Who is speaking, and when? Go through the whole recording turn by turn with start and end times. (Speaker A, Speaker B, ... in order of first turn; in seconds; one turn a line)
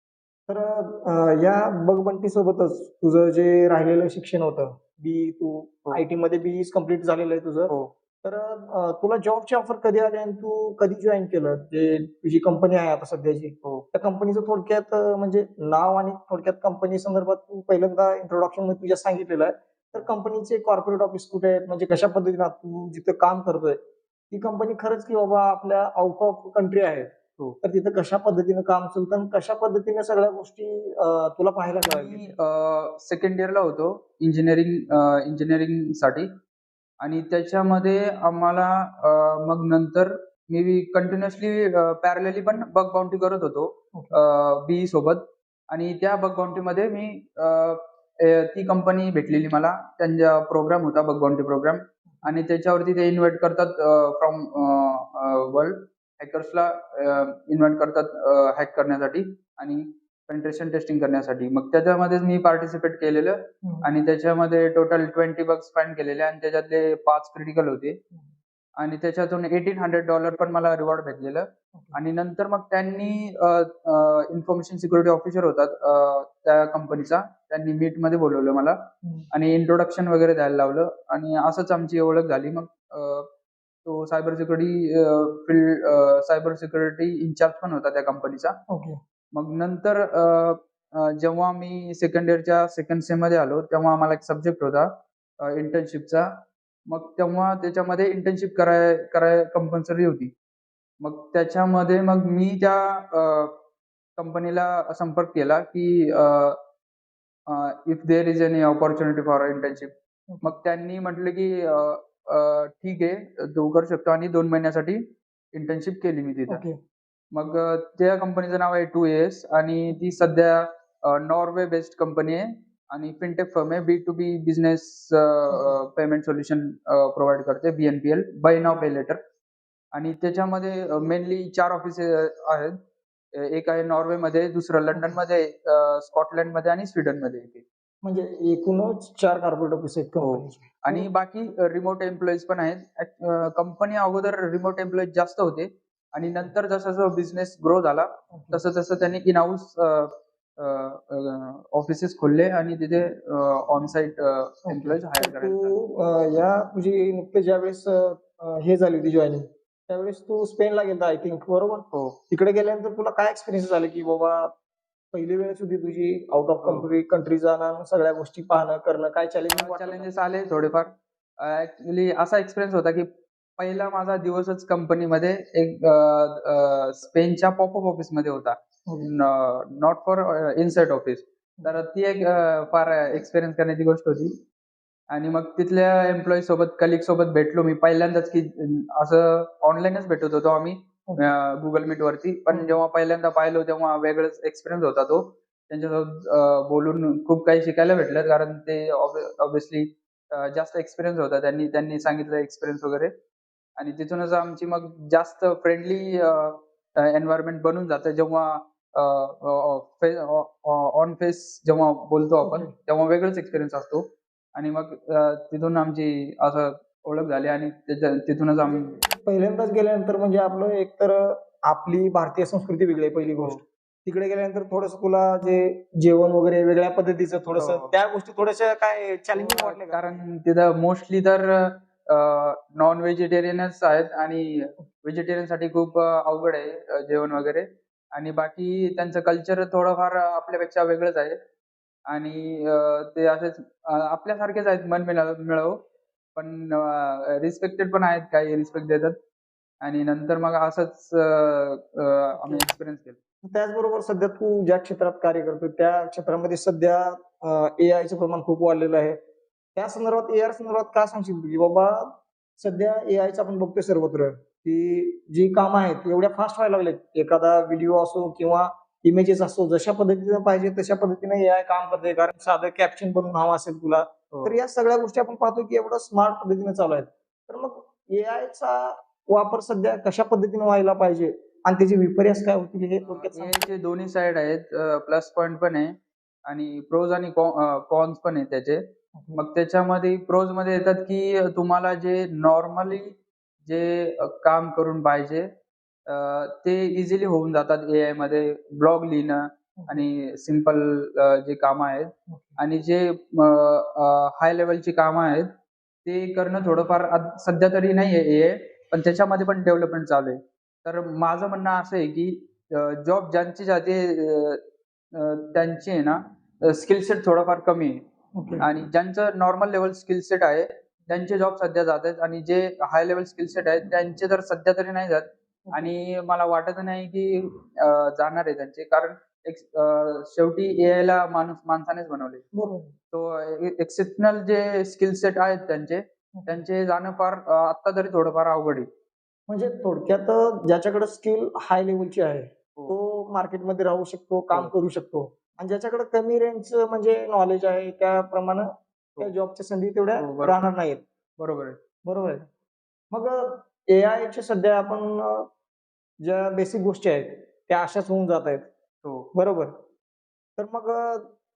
Speaker A: 0.5-23.8
Speaker A: 24.3-32.3
Speaker B: 31.8-36.3
Speaker B: 37.0-68.0
Speaker A: 63.6-63.9
Speaker B: 68.8-83.3
Speaker B: 83.8-88.6
Speaker A: 88.7-89.0
Speaker B: 89.3-96.3
Speaker B: 96.9-100.3
Speaker B: 101.0-103.5
Speaker B: 104.2-106.6
Speaker B: 107.5-116.6
Speaker A: 110.3-110.5
Speaker A: 116.5-116.7
Speaker B: 117.3-129.2
Speaker A: 125.5-125.8
Speaker B: 129.9-132.8
Speaker B: 133.3-137.6
Speaker A: 138.0-141.1
Speaker B: 140.2-155.8
Speaker A: 148.3-148.6
Speaker A: 154.7-164.5
Speaker B: 161.9-162.2
Speaker A: 165.1-170.1
Speaker B: 166.6-166.9
Speaker B: 169.5-184.3
Speaker A: 178.9-179.1
Speaker B: 185.1-203.1
Speaker A: 192.5-192.8
Speaker B: 203.8-218.9
Speaker A: 212.4-212.7
Speaker A: 218.6-230.2
Speaker B: 227.6-227.9
Speaker B: 229.3-241.4
Speaker B: 242.1-245.8
Speaker B: 246.3-249.2
Speaker B: 249.8-253.2
Speaker A: 252.3-252.7
Speaker A: 253.4-259.2
Speaker A: 259.8-283.7
Speaker B: 274.3-274.6
Speaker B: 283.0-288.8
Speaker A: 289.1-289.4
Speaker B: 289.4-295.4
Speaker B: 296.1-305.5
Speaker A: 299.8-300.1
Speaker A: 302.3-302.6
Speaker B: 306.0-314.6
Speaker B: 315.1-318.0
Speaker A: 318.3-318.7
Speaker B: 318.6-332.4
Speaker A: 325.6-325.9
Speaker A: 332.5-332.9
Speaker B: 333.1-338.9
Speaker A: 336.3-336.6
Speaker A: 339.5-348.7
Speaker A: 349.2-351.0
Speaker B: 350.2-350.6
Speaker B: 351.4-351.8
Speaker A: 352.0-352.4
Speaker A: 353.1-355.5
Speaker A: 356.2-358.7
Speaker B: 359.0-359.3
Speaker A: 359.3-359.7
Speaker A: 360.6-361.3